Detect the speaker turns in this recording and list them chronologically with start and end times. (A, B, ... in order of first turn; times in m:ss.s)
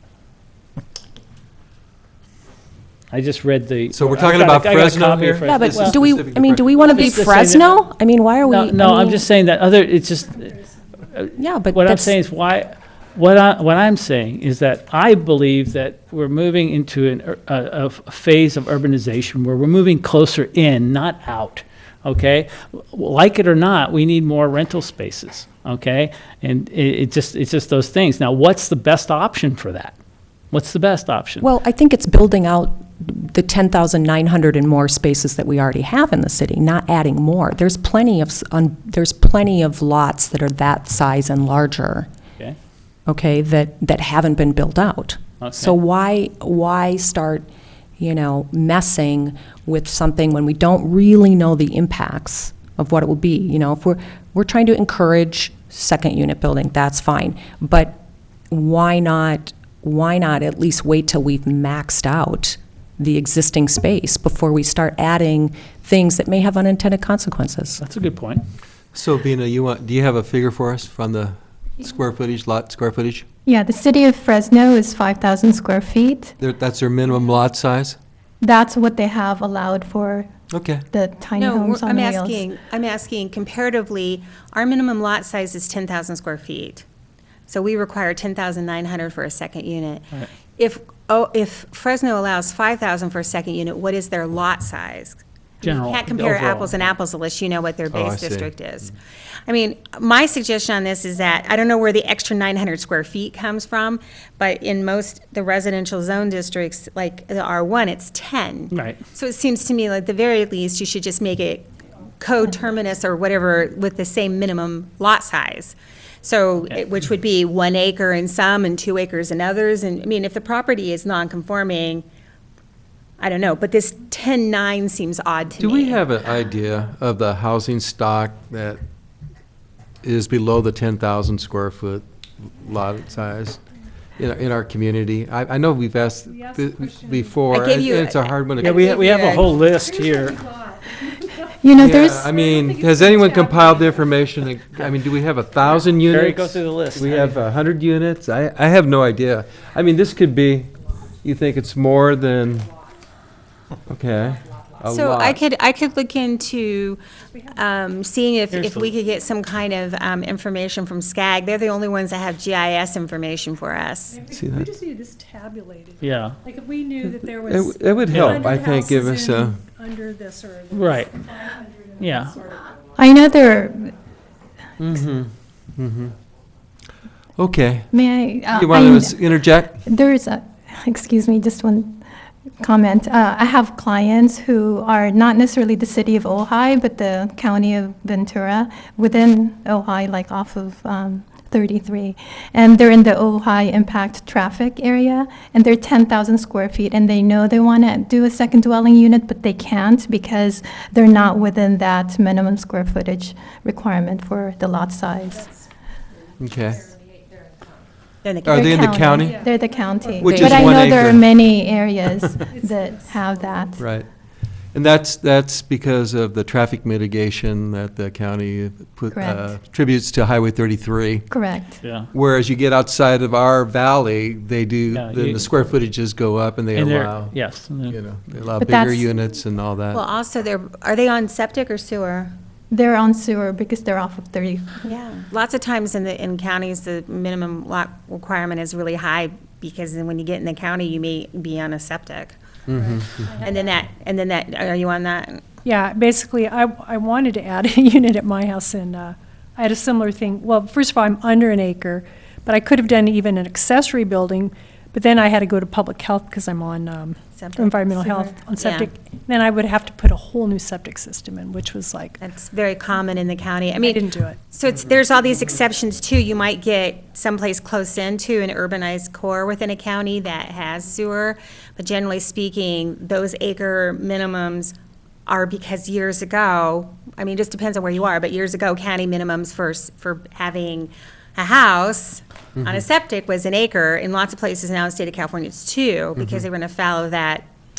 0:03.1-0:06.0 A
0:03.9-0:06.7 B
0:05.4-0:09.3 C
0:06.8-0:07.8 A
0:08.4-0:29.9 A
0:10.4-0:10.8 D
0:11.4-0:12.1 C
0:30.5-0:31.4 A
0:31.4-0:42.1 C
0:43.0-0:47.5 C
0:45.4-0:45.7 A
0:48.0-0:58.0 C
0:58.5-1:07.8 C
1:07.8-1:08.4 A
1:08.9-1:13.2 B
1:13.4-1:16.4 E
1:16.4-1:18.0 B
1:18.4-1:20.3 E
1:20.5-1:20.8 B
1:20.9-1:22.4 E
1:21.3-1:26.8 F
1:27.5-1:39.0 F
1:35.6-1:36.7 A
1:37.9-1:38.5 B
1:39.5-2:02.0 F
1:48.7-1:49.0 A
2:03.2-2:06.0 F
2:05.6-2:08.8 B
2:10.0-2:13.6 B
2:14.2-2:19.3 B
2:16.2-2:17.4 D
2:17.5-2:19.4 F
2:18.6-2:20.4 A
2:19.4-2:21.4 D
2:21.6-2:22.3 E
2:21.8-2:32.7 B
2:22.2-2:23.9 D
2:25.9-2:27.4 A
2:33.8-2:35.4 B
2:34.9-2:44.2 F
2:38.5-2:38.9 A
2:44.1-2:52.6 D
2:44.3-2:44.7 B
2:46.0-2:46.4 A
2:47.0-2:49.6 B
2:48.1-2:48.5 A
2:50.7-2:51.2 A
2:52.0-2:52.4 A
2:53.0-2:53.9 E
2:54.8-2:56.1 B
2:57.4-2:57.9 B
2:57.9-3:02.0 E
2:58.5-2:59.8 B
3:02.6-3:25.5 E
3:26.4-3:26.9 B
3:28.2-3:28.8 F
3:28.4-3:29.4 B
3:28.5-3:33.9 E
3:29.1-3:30.8 D
3:30.2-3:31.3 B
3:30.3-3:30.6 C
3:32.4-3:33.8 D
3:33.8-3:34.1 B
3:34.7-3:41.3 B
3:39.1-3:39.6 E
3:41.3-3:41.8 E
3:41.8-3:42.1 A
3:42.1-3:50.0 B
3:44.9-3:45.5 A
3:46.7-3:48.0 A
3:48.6-3:49.1 E
3:49.9-3:52.3 F
3:52.7-3:54.9 E
3:54.9-4:02.4 F
4:02.7-4:03.3 B
4:02.7-4:03.7 D
4:03.4-4:05.4 F
4:05.6-4:22.2 D
4:17.3-4:18.9 F
4:22.2-4:34.7 F
4:23.8-4:24.4 D
4:35.3-4:47.5 F
4:42.6-4:42.8 B
4:46.2-4:46.4 B